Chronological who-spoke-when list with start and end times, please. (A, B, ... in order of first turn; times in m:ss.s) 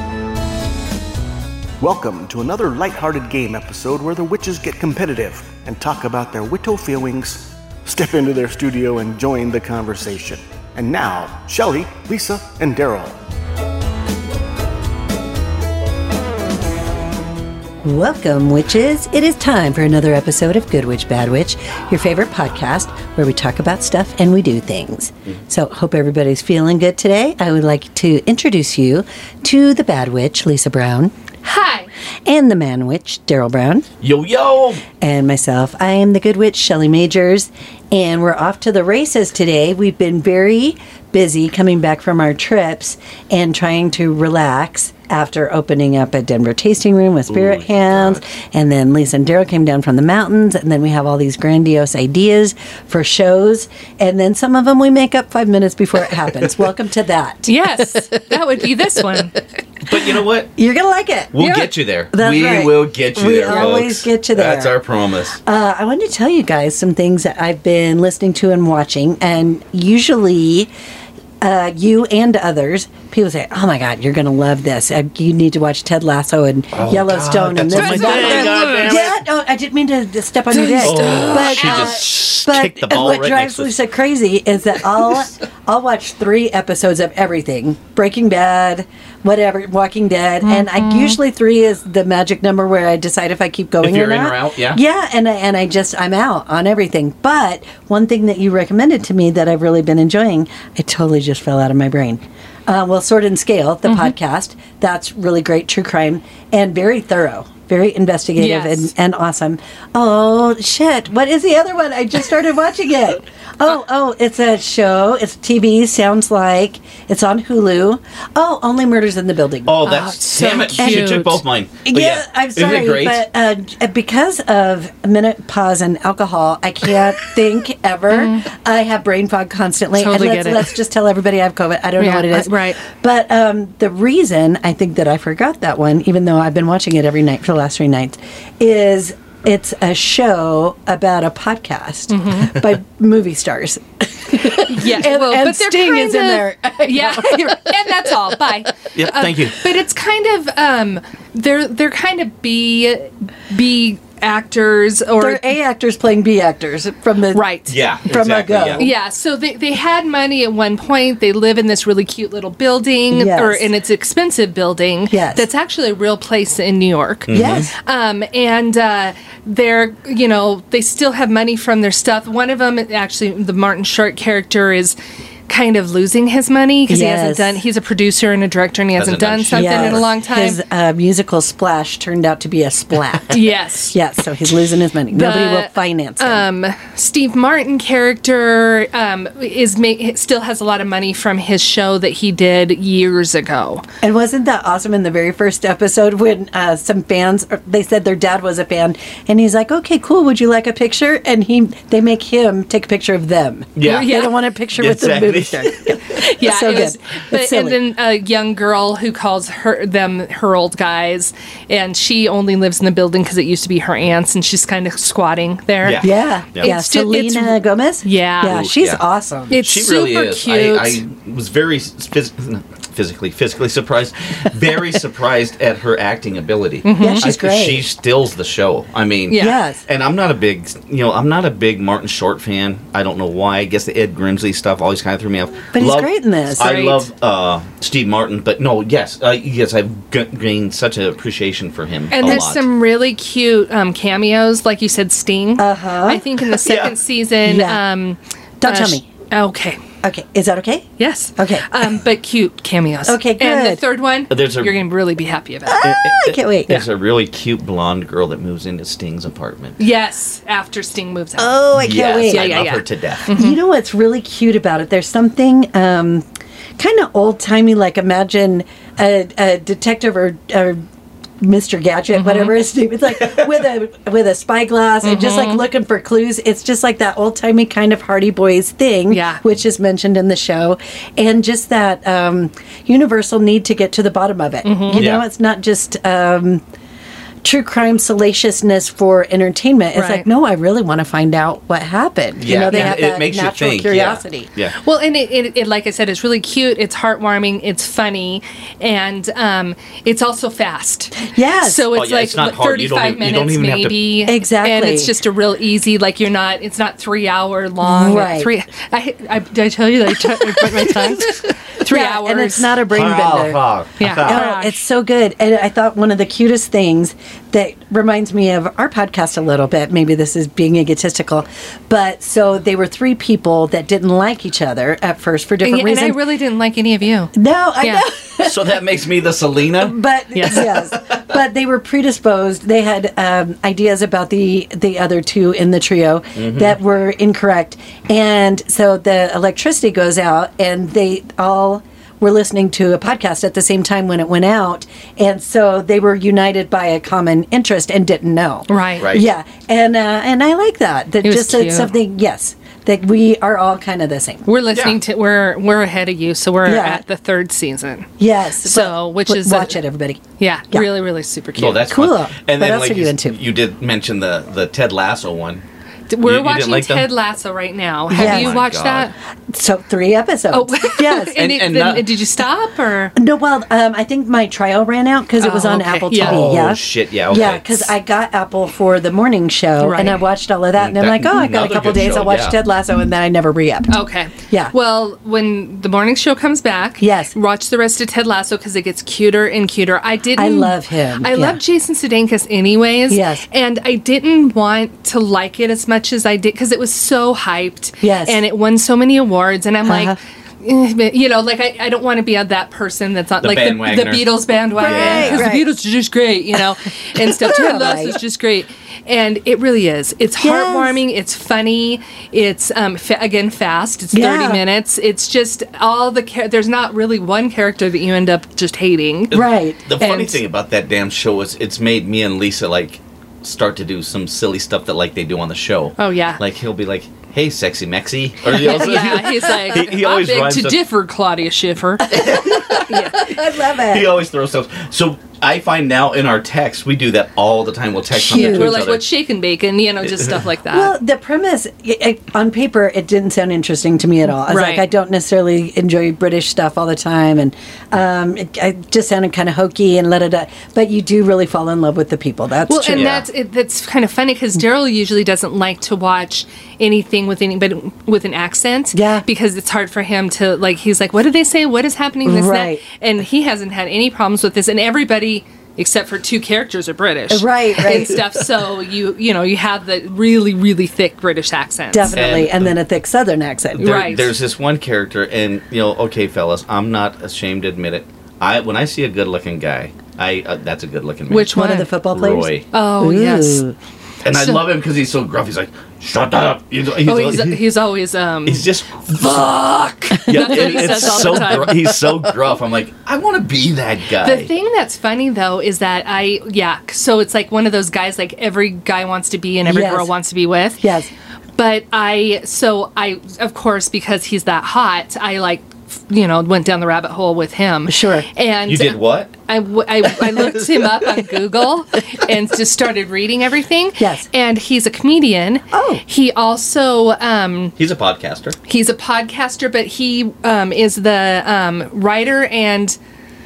0:01.8-0:13.2 A
0:17.8-0:31.1 B
0:31.4-0:31.9 C
0:32.2-0:33.8 B
0:34.0-0:34.8 D
0:35.0-0:58.0 B
0:47.3-0:48.2 D
0:57.4-0:59.4 C
0:59.8-1:00.5 D
1:00.6-1:04.8 B
1:01.3-1:05.4 D
1:05.4-1:10.7 B
1:11.4-2:00.0 B
1:16.7-1:19.2 D
1:17.7-1:18.8 C
1:20.6-1:22.2 C
1:20.8-1:23.8 D
1:30.4-1:31.2 C
1:33.8-1:34.8 D
1:43.8-1:44.1 C
1:48.4-1:48.9 C
1:59.6-2:03.2 D
1:59.8-2:01.4 C
2:00.8-2:01.2 B
2:01.8-2:28.1 B
2:08.1-2:08.5 C
2:09.9-2:10.7 C
2:12.0-2:12.8 C
2:22.1-2:22.6 C
2:24.3-2:35.6 C
2:28.9-2:29.6 D
2:35.2-2:37.5 B
2:37.3-2:37.7 C
2:37.7-2:38.8 D
2:38.0-2:38.9 B
2:38.8-2:55.0 C
2:43.1-2:43.7 B
2:45.1-2:45.5 B
2:47.3-2:47.7 D
2:47.3-2:47.7 B
2:55.5-3:00.6 C
2:56.9-2:57.6 B
2:59.0-3:00.1 D
2:59.5-3:06.4 B
3:03.3-3:04.0 C
3:05.1-3:13.8 C
3:14.0-3:27.8 B
3:23.8-3:26.0 D
3:23.8-3:24.3 C
3:26.1-3:38.6 C
3:35.8-3:36.7 D
3:36.0-3:39.6 B
3:38.4-3:39.0 D
3:39.5-3:41.0 C
3:39.5-4:02.6 D
3:46.8-3:47.2 C
3:47.0-3:47.8 B
3:49.3-3:49.6 C
3:49.3-3:49.8 B
3:55.7-3:56.8 B
3:56.6-3:57.0 C
4:02.1-4:09.8 C
4:05.6-4:06.2 B
4:06.6-4:07.0 D
4:07.4-4:07.8 B
4:08.6-4:09.0 B
4:10.0-4:11.7 B
4:11.0-4:15.8 C
4:13.0-4:13.8 B
4:14.3-4:14.8 D
4:15.6-4:16.8 B
4:15.8-4:19.8 D
4:19.8-4:23.6 C
4:21.4-4:22.7 B
4:21.8-4:23.2 D
4:23.3-4:26.2 B
4:26.8-4:30.8 B
4:31.4-4:46.6 B
4:32.1-4:32.6 C
4:35.0-4:35.6 C
4:39.1-4:39.4 C
4:44.6-4:45.1 C
4:44.9-4:45.2 D
4:47.4-4:54.5 B
4:49.9-4:50.3 C
4:52.4-4:54.8 D
4:52.4-4:53.0 C
4:54.8-5:12.9 C
5:01.3-5:01.8 B
5:01.9-5:04.0 D
5:04.2-5:05.1 B
5:07.8-5:08.5 B
5:10.5-5:11.3 B
5:11.8-5:13.6 B
5:12.9-5:14.4 D
5:14.0-5:14.8 C
5:14.2-5:26.2 B
5:25.6-5:28.0 C
5:27.3-5:28.6 B
5:28.4-5:30.0 D
5:29.8-5:54.4 B
5:30.3-5:30.7 C
5:30.5-5:31.2 D
5:36.4-5:36.8 D
5:48.7-5:49.1 C
5:49.0-5:49.3 D
5:51.2-5:51.9 C
5:54.4-5:58.1 C
5:56.6-5:57.0 B
5:58.2-6:00.9 B
5:58.6-5:59.8 C
6:00.4-6:01.9 C
6:01.6-6:05.6 D
6:01.9-6:03.4 B
6:06.1-6:09.1 C
6:06.2-6:07.1 D
6:08.1-6:09.1 D
6:08.1-6:08.6 B
6:09.5-6:11.4 B
6:10.5-6:13.1 C
6:11.3-6:12.1 D
6:13.1-6:24.7 B
6:15.4-6:16.5 C
6:16.1-6:17.9 D
6:19.8-6:20.2 C
6:20.8-6:22.5 D
6:23.9-6:59.4 C
6:27.0-6:27.3 B
6:30.4-6:31.6 B
6:33.1-6:33.4 B
6:38.0-6:38.4 B
6:39.8-6:40.2 B
6:43.4-6:45.4 D
6:44.8-6:45.7 B
6:47.3-6:48.2 B
6:50.4-6:51.0 B
6:54.1-6:54.6 B
6:59.3-7:10.8 D
6:59.3-7:00.0 B
7:00.0-7:00.4 C
7:06.0-7:06.4 C
7:08.4-7:13.2 C
7:12.1-7:12.9 D
7:12.1-7:14.2 B
7:13.8-7:19.1 D
7:18.2-7:18.9 B
7:18.2-7:20.9 C
7:20.1-7:20.4 D
7:20.7-7:33.2 B
7:24.3-7:24.8 C
7:32.7-7:52.2 C
7:32.9-7:33.2 D
7:38.9-7:39.2 B
7:42.2-7:42.8 B
7:47.3-7:48.2 B
7:51.9-7:54.0 B
7:52.1-7:52.7 D
7:53.8-7:54.3 C
7:53.8-8:01.6 D
8:01.3-8:01.9 C
8:01.5-8:03.7 B
8:02.1-8:02.6 D
8:02.7-8:03.6 C
8:04.2-8:07.6 D
8:04.2-8:04.7 C
8:07.0-8:11.8 C
8:08.4-8:14.5 D
8:10.3-8:11.0 B
8:14.2-8:20.8 C
8:19.6-8:20.1 B
8:20.8-8:21.1 B
8:21.6-8:37.7 C
8:27.9-8:28.3 B
8:28.6-8:29.3 D
8:30.4-8:30.7 D
8:34.0-8:34.3 B
8:35.7-8:36.0 B
8:37.8-8:38.6 D
8:38.7-8:43.0 C